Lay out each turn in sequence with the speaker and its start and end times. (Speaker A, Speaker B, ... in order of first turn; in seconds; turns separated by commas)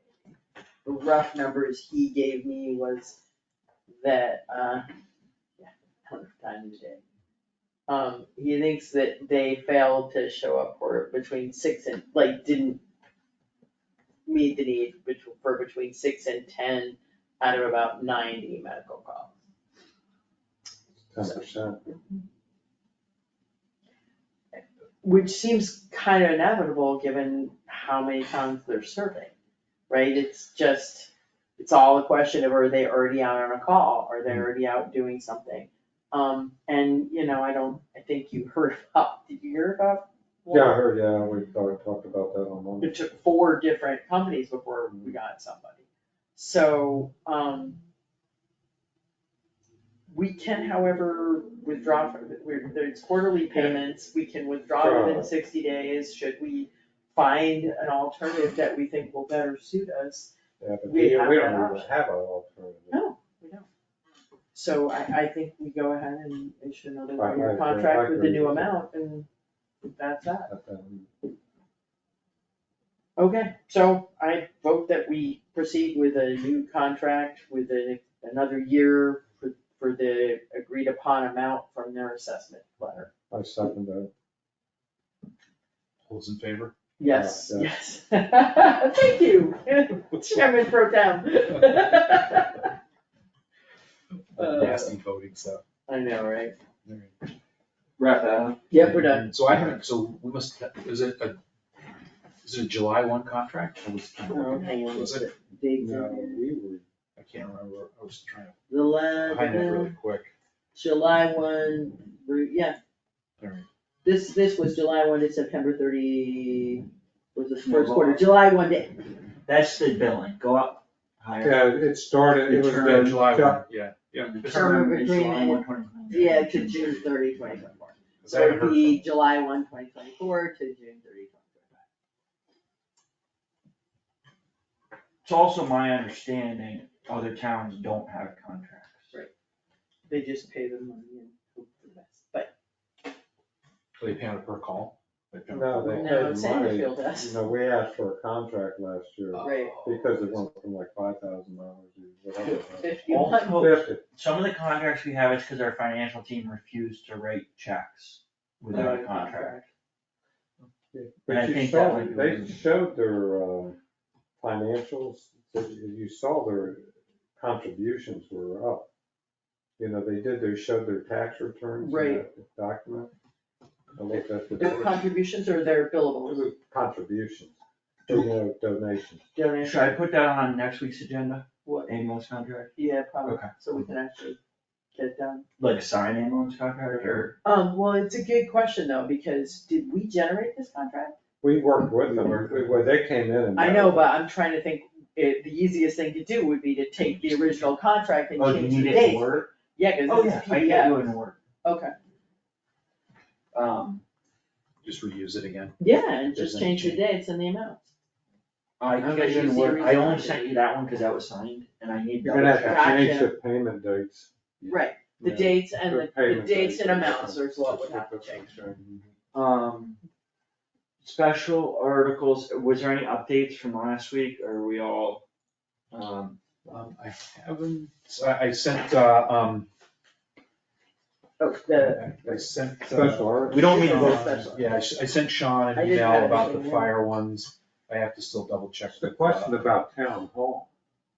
Speaker A: 0.8-3.2, Speaker A: 4.0-4.9, Speaker A: 5.6-7.0, Speaker A: 7.9-12.8, Speaker A: 14.3-19.3, Speaker B: 21.1-21.8, Speaker A: 21.2-21.9, Speaker A: 24.6-29.3, Speaker A: 29.9-40.8, Speaker B: 40.5-43.0, Speaker A: 42.8-47.8, Speaker A: 50.1-60.3, Speaker B: 54.8-55.3, Speaker B: 60.6-63.0, Speaker A: 60.9-61.9, Speaker A: 62.9-63.7, Speaker A: 64.5-69.3, Speaker B: 67.2-68.7, Speaker A: 69.8-70.5, Speaker B: 70.5-71.1, Speaker A: 73.2-83.1, Speaker B: 83.3-84.1, Speaker C: 86.0-86.7, Speaker A: 87.0-92.7, Speaker B: 87.0-87.7, Speaker A: 94.4-94.9, Speaker C: 94.4-95.6, Speaker A: 95.9-96.5, Speaker C: 96.8-97.2, Speaker D: 98.0-98.6, Speaker A: 98.7-99.3, Speaker C: 98.8-101.4, Speaker C: 102.4-105.3, Speaker A: 104.3-106.4, Speaker B: 105.8-106.8, Speaker C: 107.2-108.5, Speaker A: 108.7-110.0, Speaker C: 109.2-110.3, Speaker A: 110.7-112.8, Speaker C: 113.4-113.7, Speaker A: 114.0-119.2, Speaker D: 117.6-118.2, Speaker D: 119.5-121.7, Speaker B: 121.4-123.6, Speaker C: 122.5-124.8, Speaker D: 122.8-123.0, Speaker D: 124.2-127.1, Speaker A: 124.4-131.8, Speaker C: 128.2-129.0, Speaker D: 135.2-139.1, Speaker A: 140.1-142.5, Speaker C: 144.0-146.3, Speaker B: 145.5-154.0, Speaker A: 145.9-147.4, Speaker C: 149.3-150.4, Speaker A: 149.4-149.8, Speaker A: 152.8-153.8, Speaker D: 153.1-159.6, Speaker A: 158.7-159.7, Speaker B: 160.9-163.8, Speaker D: 161.3-162.6, Speaker B: 164.4-168.9, Speaker B: 169.8-173.1, Speaker A: 171.8-172.2, Speaker B: 174.0-175.0, Speaker A: 174.6-176.5, Speaker B: 176.3-177.5, Speaker B: 178.1-179.2, Speaker A: 179.3-180.0, Speaker D: 179.6-182.7, Speaker A: 182.8-184.4, Speaker D: 183.2-183.5, Speaker A: 184.9-185.4, Speaker D: 185.6-187.3, Speaker A: 187.4-191.2, Speaker B: 191.4-194.1, Speaker A: 192.0-192.7, Speaker A: 193.6-201.1, Speaker C: 197.0-197.6, Speaker D: 198.4-199.5, Speaker D: 200.1-201.4, Speaker A: 201.6-201.9, Speaker D: 203.5-204.0, Speaker C: 204.8-207.0, Speaker A: 205.8-207.9, Speaker D: 208.8-213.0, Speaker A: 209.0-210.5, Speaker B: 212.2-219.1, Speaker A: 212.7-213.3, Speaker A: 214.7-218.5, Speaker D: 219.3-220.0, Speaker D: 221.0-225.2, Speaker D: 225.9-226.4, Speaker C: 226.7-229.7, Speaker A: 231.4-232.1, Speaker C: 231.7-239.6, Speaker B: 232.2-234.3, Speaker A: 233.5-234.8, Speaker D: 233.6-234.2, Speaker A: 235.7-237.0, Speaker B: 238.9-240.7